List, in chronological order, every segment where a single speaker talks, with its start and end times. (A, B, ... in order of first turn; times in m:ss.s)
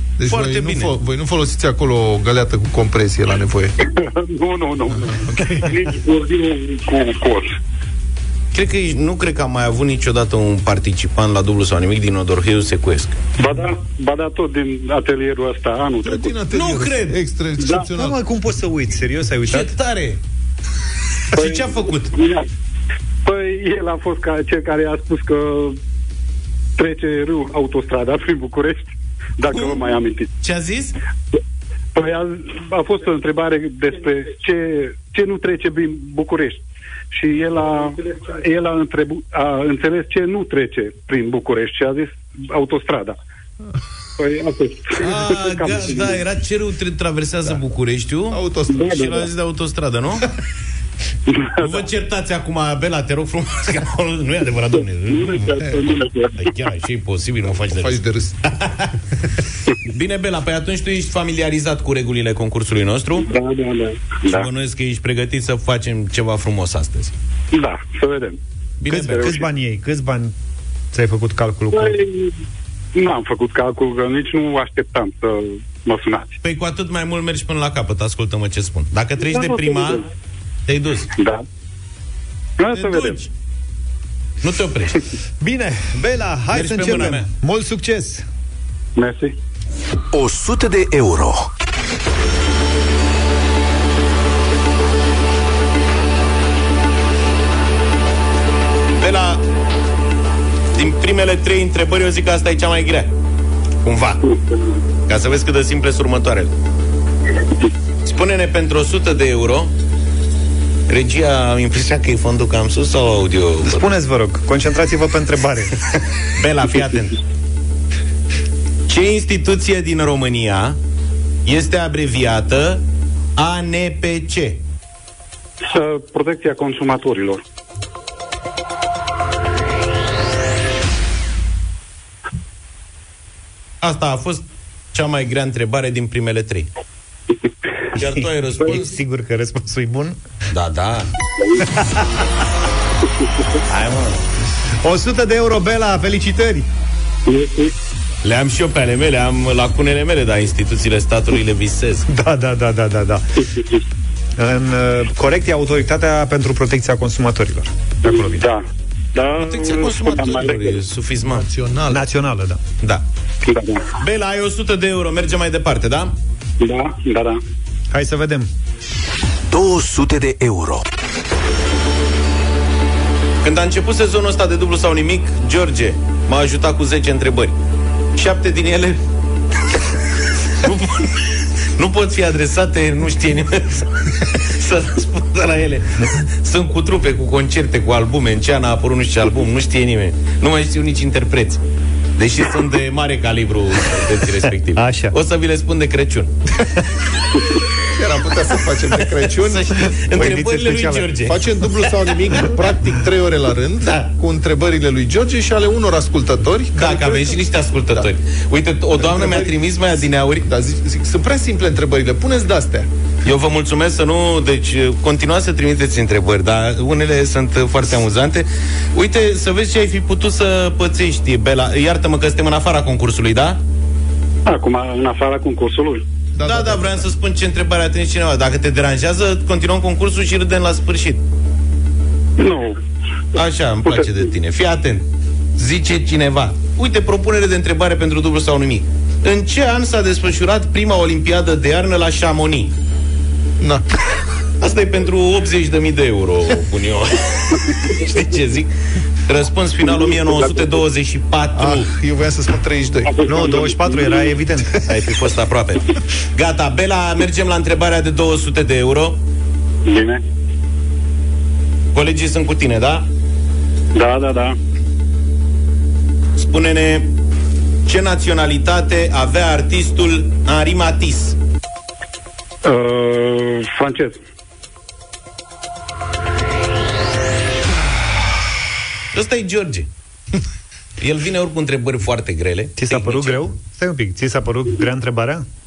0:00.2-0:03.7 A
0:00.3-0:01.0 B
0:03.8-0:07.5 C
0:05.1-0:05.7 A
0:08.5-0:13.2 B
0:13.4-0:16.3 C
0:16.0-0:18.2 A
0:16.5-0:17.2 B
0:17.9-0:19.7 D
0:19.5-0:20.2 B
0:21.3-0:22.1 B
0:21.3-0:22.4 C
0:23.2-0:25.8 C
0:26.8-0:30.3 C
0:29.5-0:29.8 B
0:30.4-0:30.9 B
0:31.9-0:36.6 C
0:37.1-0:43.2 C
0:44.2-0:46.2 C
0:45.0-0:50.3 B
0:45.7-0:46.0 A
0:48.3-0:49.1 A
0:48.7-0:49.2 C
0:51.3-0:51.8 C
0:51.6-0:55.4 B
0:54.7-0:56.5 C
0:55.3-0:55.9 A
0:56.4-0:58.0 B
0:57.7-0:58.4 A
0:58.5-0:58.9 B
0:59.9-1:03.3 B
1:03.2-1:04.5 C
1:04.2-1:07.1 B
1:07.5-1:08.4 C
1:08.8-1:09.4 B
1:08.9-1:10.3 D
1:10.9-1:12.0 D
1:11.7-1:12.4 C
1:12.9-1:16.4 C
1:16.4-1:20.0 B
1:19.3-1:20.0 C
1:20.7-1:21.1 B
1:21.2-1:21.4 C
1:22.6-1:23.2 C
1:22.7-1:23.3 B
1:24.4-1:25.0 B
1:25.4-1:28.2 D
1:26.5-1:27.3 B
1:29.0-1:29.3 C
1:30.1-1:31.5 E
1:39.0-1:39.4 B
1:40.7-1:43.1 B
1:43.8-1:44.2 B
1:44.2-1:44.8 C
1:45.1-1:46.5 B
1:48.0-1:49.7 B
1:50.9-1:53.9 B
1:53.6-1:55.7 D
1:56.4-1:57.2 B
1:58.9-2:00.8 B
2:01.4-2:02.8 B
2:03.4-2:04.6 B
2:05.6-2:07.4 C
2:13.8-2:14.4 B
2:14.9-2:16.7 B
2:18.0-2:18.9 B
2:18.0-2:20.2 D
2:20.5-2:21.1 B
2:21.7-2:22.2 D
2:23.7-2:24.2 B
2:24.8-2:26.7 D
2:27.3-2:27.7 C
2:28.2-2:32.1 B
2:32.1-2:33.3 D
2:33.5-2:33.8 C
2:34.4-2:38.4 D
2:38.0-2:38.6 C
2:39.1-2:40.8 C
2:39.4-2:41.4 B
2:41.2-2:42.1 A
2:41.9-2:42.6 D
2:43.4-2:43.8 C
2:44.0-2:46.1 B
2:46.6-2:47.4 C
2:47.9-2:48.5 D
2:49.5-2:50.8 E
2:53.4-2:57.5 B
2:58.2-2:59.0 B
3:00.6-3:01.2 B
3:01.8-3:11.6 B
3:12.2-3:16.3 B
3:14.8-3:15.1 D
3:17.9-3:27.4 A
3:19.3-3:21.9 B
3:20.1-3:21.0 D
3:23.8-3:24.1 B
3:26.8-3:30.4 B
3:29.0-3:29.6 A
3:30.4-3:32.9 A
3:33.2-3:43.6 B
3:44.5-3:46.0 C
3:46.3-3:47.1 A
3:46.4-3:51.2 B
3:52.4-3:52.8 C
3:53.4-3:55.0 B
3:53.8-3:54.3 C
3:55.6-4:02.7 B
4:03.6-4:03.8 A
4:04.6-4:08.7 B
4:09.3-4:11.9 B
4:09.8-4:10.8 C
4:11.5-4:13.1 A
4:13.0-4:14.4 C
4:13.2-4:14.8 D
4:14.9-4:15.8 B
4:16.3-4:19.2 B
4:19.8-4:20.2 C
4:21.9-4:23.0 B
4:23.9-4:24.6 C
4:26.4-4:27.1 B
4:27.8-4:31.4 B
4:32.6-4:34.2 C
4:39.1-4:39.9 B
4:41.0-4:43.5 B
4:42.8-4:45.4 D